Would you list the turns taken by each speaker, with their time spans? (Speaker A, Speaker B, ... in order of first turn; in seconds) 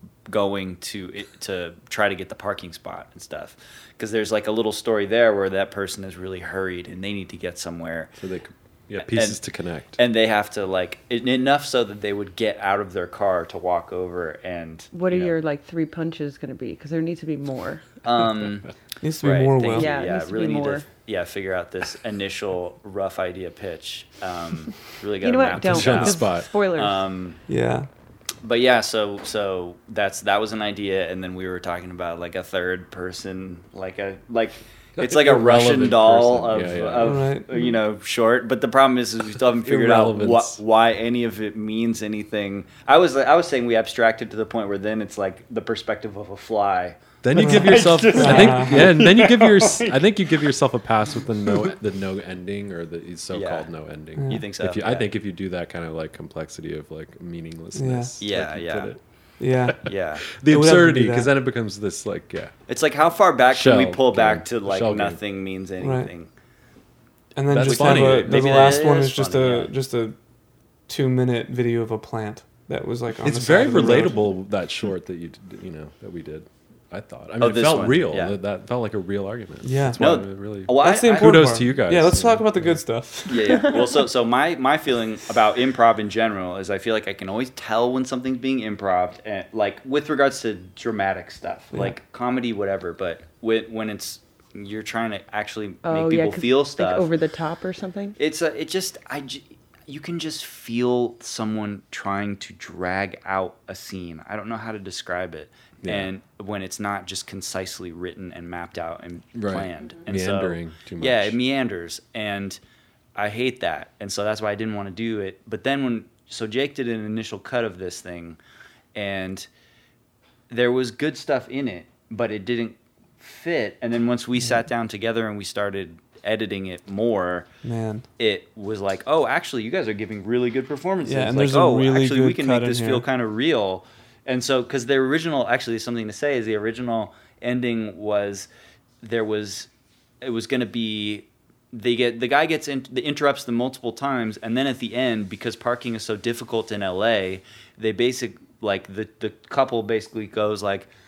Speaker A: 0.3-8.1, 9.0-9.4, 9.9-15.4, 18.0-27.4, 28.4-50.5, 51.5-51.7, 53.3-53.7, 54.2-55.1, 58.2-58.9, 59.8-60.2, 62.7-66.3, 67.6-69.7, 77.4-78.3, 80.0-81.6, 83.3-97.1, 98.2-112.6, 113.1-118.4, 118.9-119.5, 120.5-127.5, 128.2-138.5, 139.0-139.7, 140.2-150.9
Speaker B: 8.2-10.0, 25.6-26.5, 35.0-37.3, 39.6-40.6, 47.2-59.0, 59.6-62.5, 63.5-65.2, 67.5-68.8, 73.2-82.8, 105.8-106.1, 109.3-111.4
Speaker C: 14.9-18.0, 19.7-20.8, 25.2-27.0, 83.5-83.7, 95.8-98.2
Speaker D: 19.0-19.9, 27.5-27.9, 37.0-37.5, 47.4-48.9, 54.2-54.4, 57.7-58.1, 59.4-59.9, 60.5-61.3, 65.8-66.1, 67.3-70.2, 70.9-74.3, 79.6-83.7, 127.6-128.1, 131.0-133.0